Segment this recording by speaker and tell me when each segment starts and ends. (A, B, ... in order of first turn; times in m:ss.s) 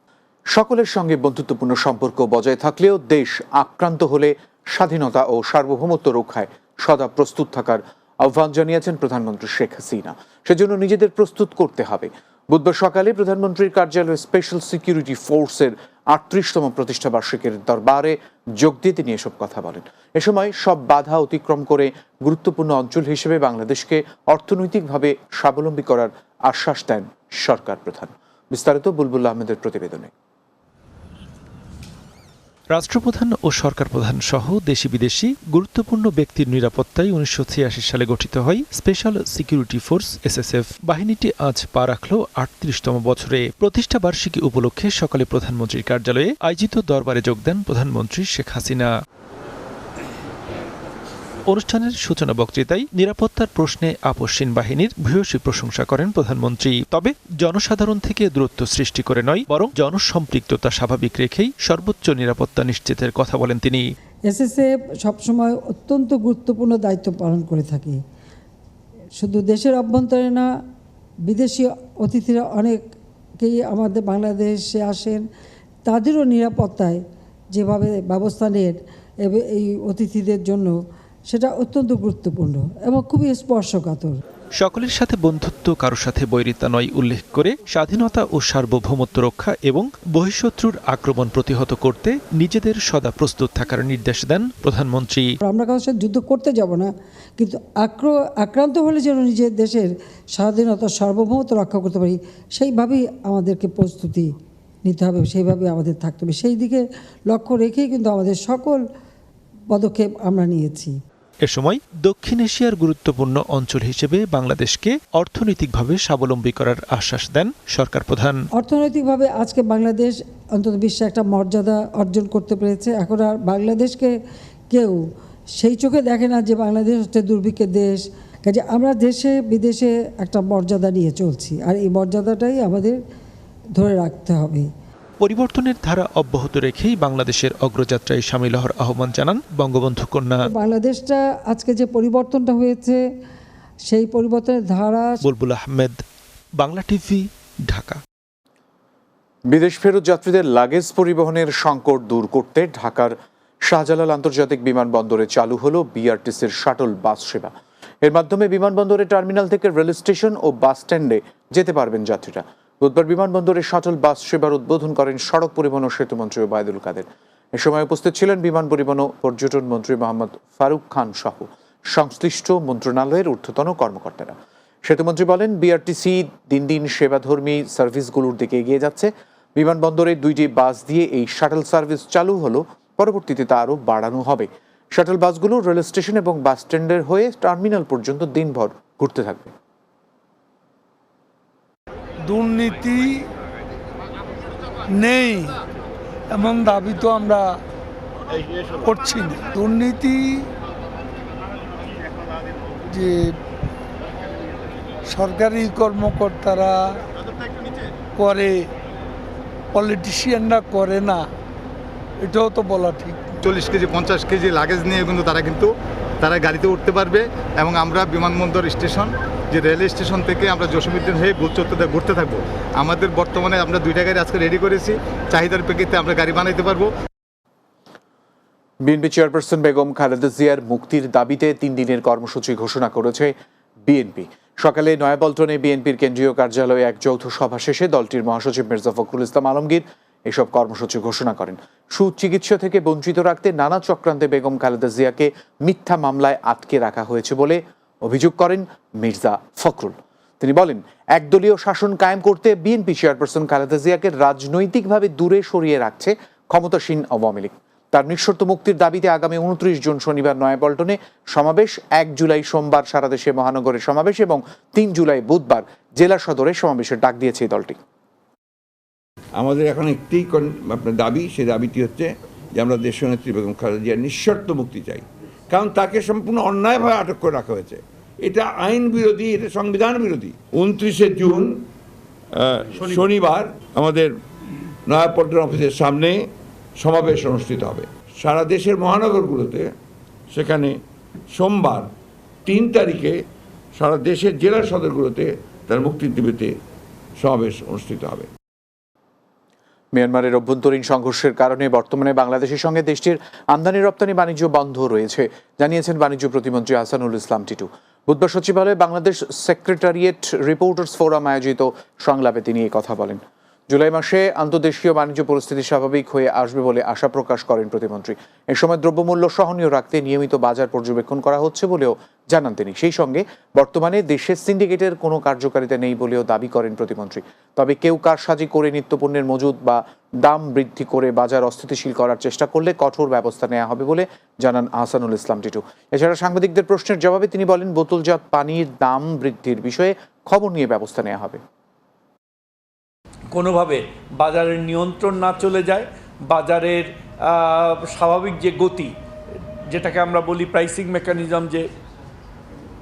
0:00.5-0:30.1 A
0:32.7-0:48.9 B
0:51.5-1:03.8 B
1:04.3-1:08.0 C
1:09.2-1:10.5 C
1:11.2-1:12.8 C
1:13.4-1:15.2 C
1:15.9-1:20.7 C
1:21.3-1:24.2 C
1:24.6-1:35.2 B
1:35.4-1:44.3 C
1:44.8-1:48.8 C
1:49.7-1:50.9 C
1:51.4-1:58.4 B
1:58.5-2:04.1 C
2:04.7-2:05.0 C
2:05.6-2:13.0 C
2:13.7-2:14.7 C
2:15.2-2:20.4 B
2:20.4-2:23.0 C
2:23.9-2:25.2 C
2:25.2-2:26.0 B
2:26.6-2:28.0 B
2:29.5-3:09.5 A
3:12.3-3:13.1 D
3:14.9-3:15.5 D
3:16.3-3:17.4 D
3:18.8-3:20.2 D
3:22.9-3:23.3 D
3:25.1-3:26.8 D
3:28.2-3:28.7 D
3:29.7-3:31.2 D
3:32.2-3:33.2 D
3:33.4-3:35.7 E
3:36.2-3:46.9 E
3:48.8-3:53.3 A
3:53.8-4:27.8 A
4:29.4-4:41.6 F
4:42.4-4:44.1 F
4:44.9-4:46.2 F
4:46.8-4:49.7 F
4:50.3-4:50.8 F
4:51.3-4:51.9 F
4:52.4-4:53.2 F
4:53.8-4:56.5 F
4:57.2-4:58.3 F
4:59.9-5:41.4 A
5:43.3-5:48.9 G
5:49.7-5:51.7 G